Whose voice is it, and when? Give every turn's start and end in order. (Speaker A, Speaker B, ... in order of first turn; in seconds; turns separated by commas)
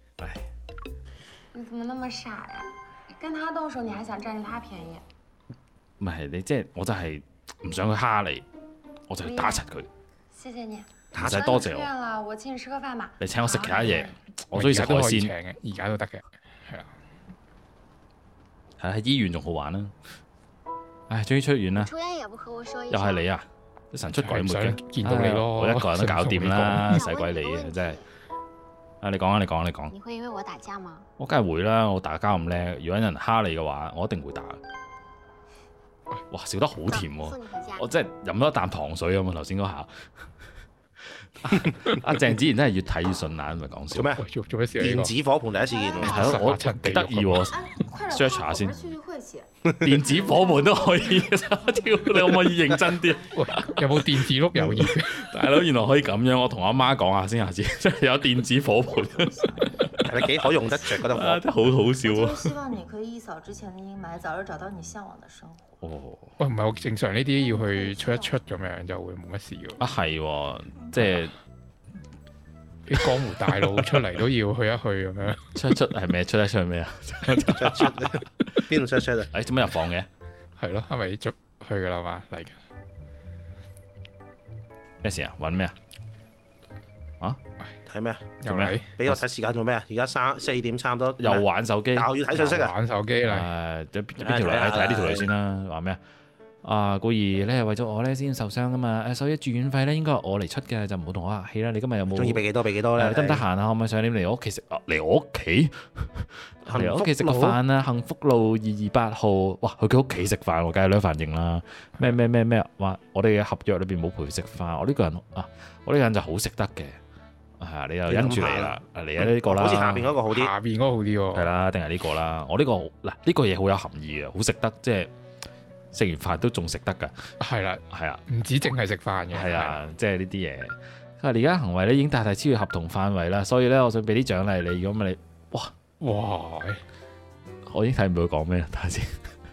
Speaker A: 0.2-0.4, Speaker B: 1.5-5.0, Speaker A: 6.0-8.4, Speaker A: 9.1-9.9, Speaker B: 9.2-9.6, Speaker B: 10.3-14.2, Speaker C: 11.1-11.4, Speaker A: 11.2-11.9, Speaker A: 13.2-15.3, Speaker D: 14.5-16.9, Speaker A: 18.8-19.9, Speaker A: 21.1-21.9, Speaker E: 21.8-23.3, Speaker A: 22.9-28.0, Speaker D: 24.1-27.0, Speaker E: 26.9-28.0, Speaker A: 29.0-29.9, Speaker E: 29.9-31.1, Speaker A: 31.2-34.6, Speaker A: 36.3-40.0, Speaker E: 36.9-37.9, Speaker A: 41.4-44.1, Speaker C: 43.9-44.2, Speaker D: 44.2-45.1, Speaker C: 44.8-46.3, Speaker B: 45.7-46.1, Speaker D: 46.0-47.5, Speaker A: 46.0-48.8, Speaker F: 47.8-54.0, Speaker A: 49.8-53.3, Speaker D: 53.3-55.2, Speaker A: 54.7-62.5, Speaker F: 58.8-60.0, Speaker C: 60.0-61.4, Speaker F: 62.0-65.7, Speaker A: 65.8-66.3, Speaker D: 66.4-69.8, Speaker F: 67.4-68.4, Speaker A: 69.8-71.3, Speaker D: 72.9-75.4, Speaker A: 75.5-78.6, Speaker C: 77.5-79.3, Speaker A: 79.3-80.1, Speaker D: 80.6-82.5, Speaker A: 85.0-85.7, Speaker C: 87.9-88.4, Speaker D: 88.4-88.9, Speaker A: 88.5-89.2, Speaker C: 89.0-92.7, Speaker A: 91.2-92.1, Speaker D: 92.3-93.5, Speaker A: 93.2-96.0, Speaker C: 94.2-95.3, Speaker A: 96.6-102.4, Speaker C: 102.1-103.4, Speaker A: 103.0-117.0, Speaker C: 106.7-107.6, Speaker A: 117.6-120.1, Speaker C: 118.1-120.5, Speaker D: 120.3-121.5, Speaker A: 121.3-125.1, Speaker A: 125.9-127.2, Speaker D: 127.4-129.8, Speaker A: 127.9-128.2, Speaker A: 129.3-135.7, Speaker D: 136.0-136.8, Speaker A: 137.7-139.2